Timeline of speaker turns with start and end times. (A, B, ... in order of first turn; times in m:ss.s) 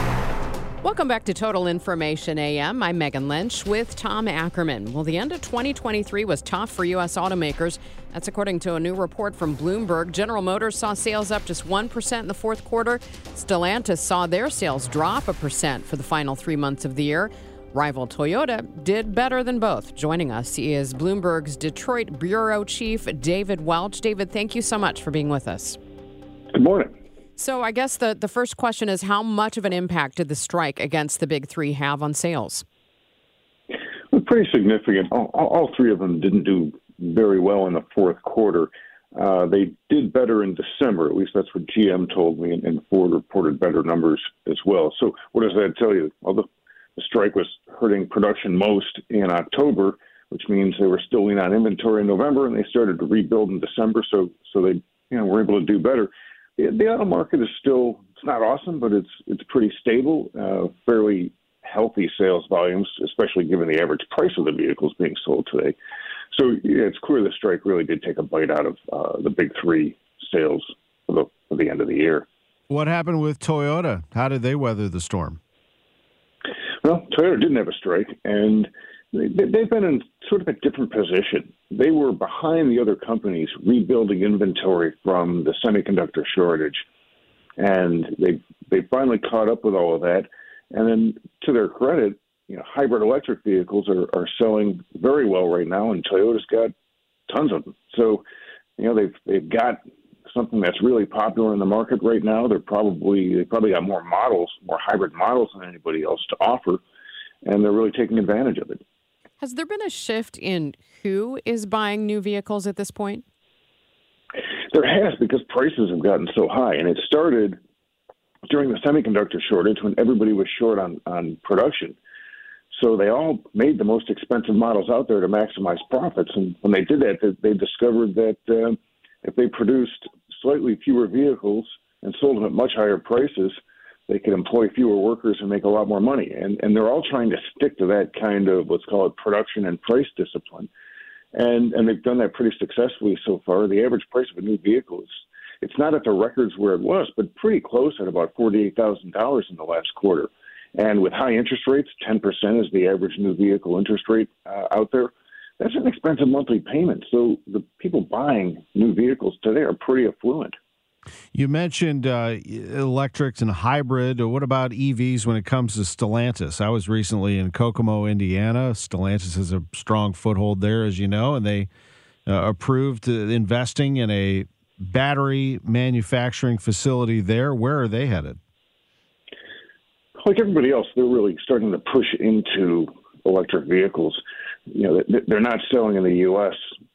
0:00.8-0:25.8 A
0:26.5-0:26.9 B
0:27.4-0:32.6 A
0:34.1-1:05.8 B
1:06.3-1:12.3 B
1:12.7-1:15.4 C
1:16.8-1:26.8 B
1:27.6-1:36.7 B
1:37.3-1:38.2 B
1:38.8-1:46.8 B
1:47.4-1:48.8 B
1:49.4-1:53.2 A
1:54.7-1:57.6 B
1:58.5-2:02.0 B
2:02.7-2:20.7 B
2:21.3-2:40.6 B
2:41.3-2:51.7 C
2:52.3-2:58.4 C
3:00.2-3:06.6 B